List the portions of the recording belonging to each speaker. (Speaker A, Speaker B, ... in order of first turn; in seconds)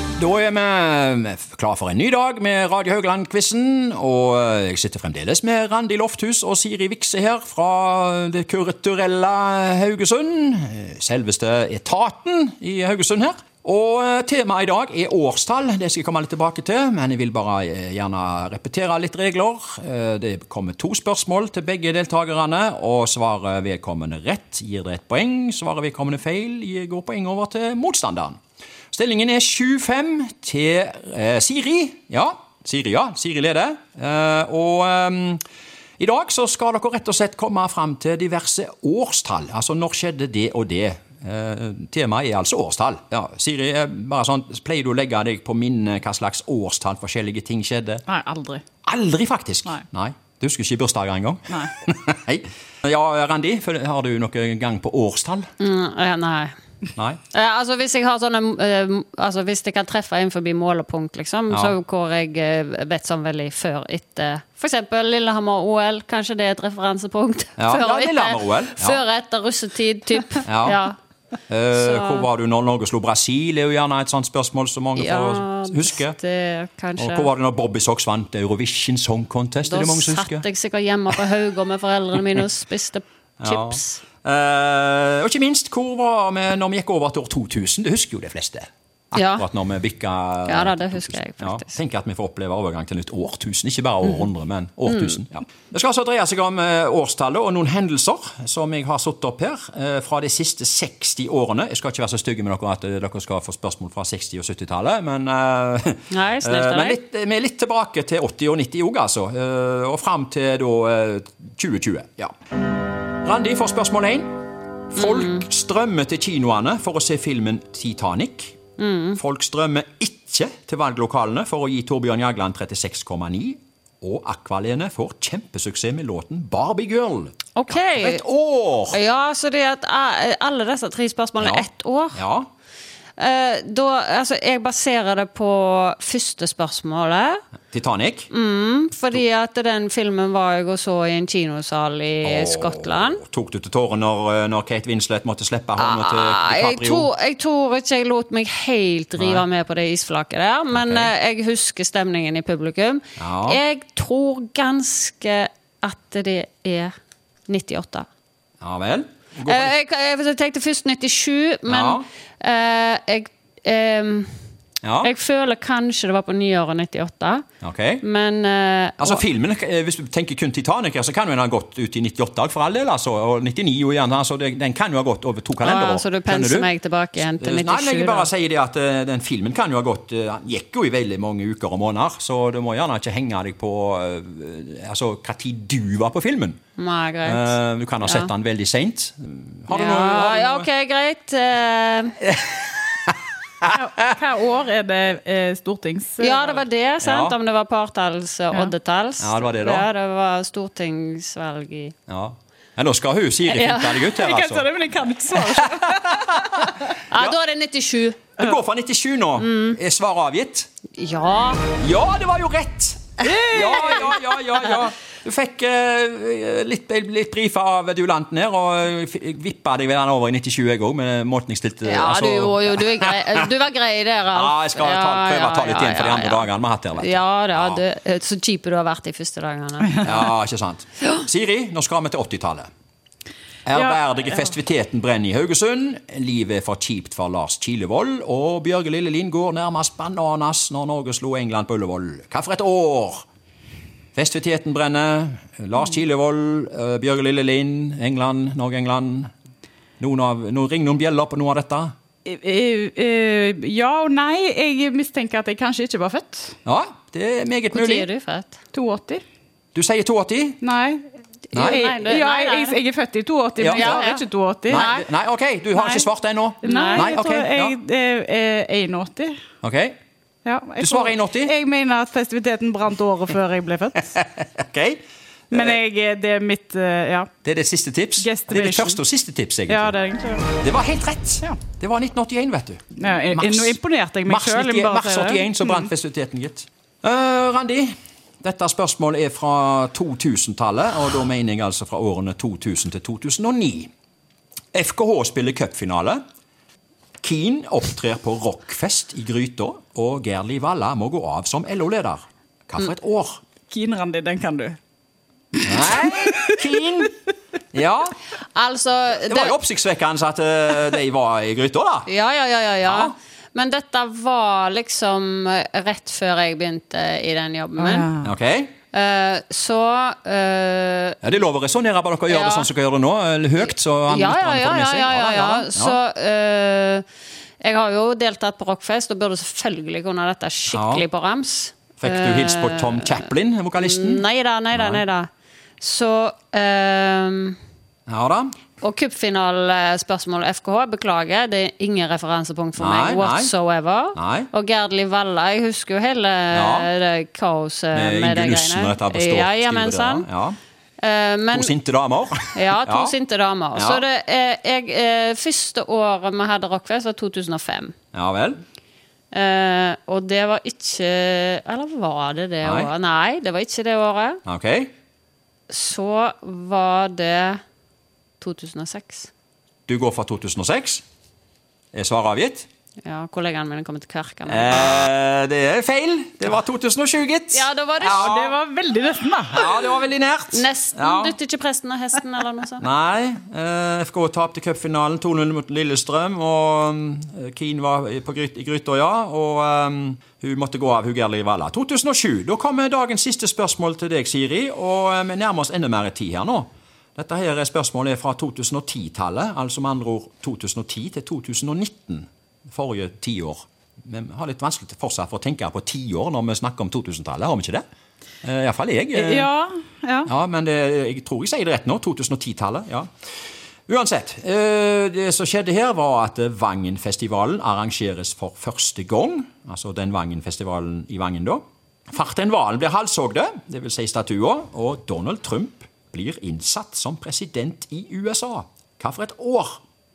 Speaker A: 0.2-28.4, 28.9-35.4, 36.0-48.0, 48.8-55.5, 67.6-69.0, 70.5-70.8, 71.5-76.2, 77.0-80.5, 83.4-112.3, 113.2-114.3, 114.9-118.6, 119.2-129.0, 131.4-132.5, 137.7-138.3, 142.2-147.1, 149.2-149.5, 150.7-151.1, 153.2-153.6, 158.6-159.7, 161.7-162.1, 164.8-165.1, 167.6-168.0, 169.0-176.7, 177.4-186.6, 187.2-190.7, 192.4-193.8, 197.0-197.4, 199.2-199.9, 202.1-204.7, 205.3-207.4, 208.4-210.7, 211.8-223.5, 224.3-227.8, 230.0-232.7, 233.7-243.2, 244.2-249.3, 250.0-251.9, 256.7-258.1, 259.8-260.6, 261.5-261.8, 263.6-264.1, 264.7-267.8, 269.6-270.0, 270.8-271.6, 274.2-275.7, 277.4-293.9, 294.7-296.2, 297.2-303.4, 305.6-307.2, 307.7-308.2, 309.3-312.1, 312.8-313.1, 318.2-318.7, 321.2-326.0, 330.7-331.0, 332.0-335.0, 338.1-338.6, 342.8-343.5, 344.1-344.5, 346.5-346.9, 347.9-350.6, 351.5-353.1, 353.8-354.0, 358.1-358.6, 362.6-362.9, 364.5-364.9, 369.9-371.0, 371.9-372.7, 374.5-378.6, 379.5-381.4, 382.8-407.8, 408.4-409.5, 410.3-413.1, 413.9-429.8
Speaker B: 48.1-48.6, 193.7-196.6, 204.0-206.8, 213.2-214.4, 233.8-234.4, 252.3-256.6, 258.7-259.2, 260.6-265.0, 265.7-266.1, 266.6-269.4, 270.4-274.2, 275.5-277.3, 278.2-279.0, 279.7-280.6, 283.0-285.9, 303.7-304.8, 305.8-306.7, 317.8-318.3, 378.0-379.8, 409.1-410.3
Speaker C: 55.6-56.5, 57.3-71.0, 71.7-72.3, 75.0-77.3, 79.7-84.0, 89.1-89.5, 90.5-91.7, 106.1-107.0, 115.0-115.5, 118.8-119.2, 127.5-128.2, 128.9-132.2, 133.2-137.4, 138.3-143.2, 145.8-156.9, 157.5-158.1, 159.4-164.3, 165.0-167.4, 168.0-169.2, 175.6-178.3, 186.8-188.3, 189.7-192.2, 196.2-201.9, 203.5-204.0, 207.0-208.3, 209.4-209.8, 210.9-211.7, 221.8-230.1, 257.7-258.6, 261.6-262.8, 263.7-265.0, 266.6-267.1, 308.6-309.6, 312.1-318.1, 318.9-321.3, 322.3-322.7, 324.1-327.1, 327.6-333.3, 333.8-337.6, 338.8-350.3, 351.0-351.7, 352.5-357.9, 359.3-364.4, 365.7-367.6, 368.4-369.3, 373.0-374.9, 377.5-378.3, 380.5-382.9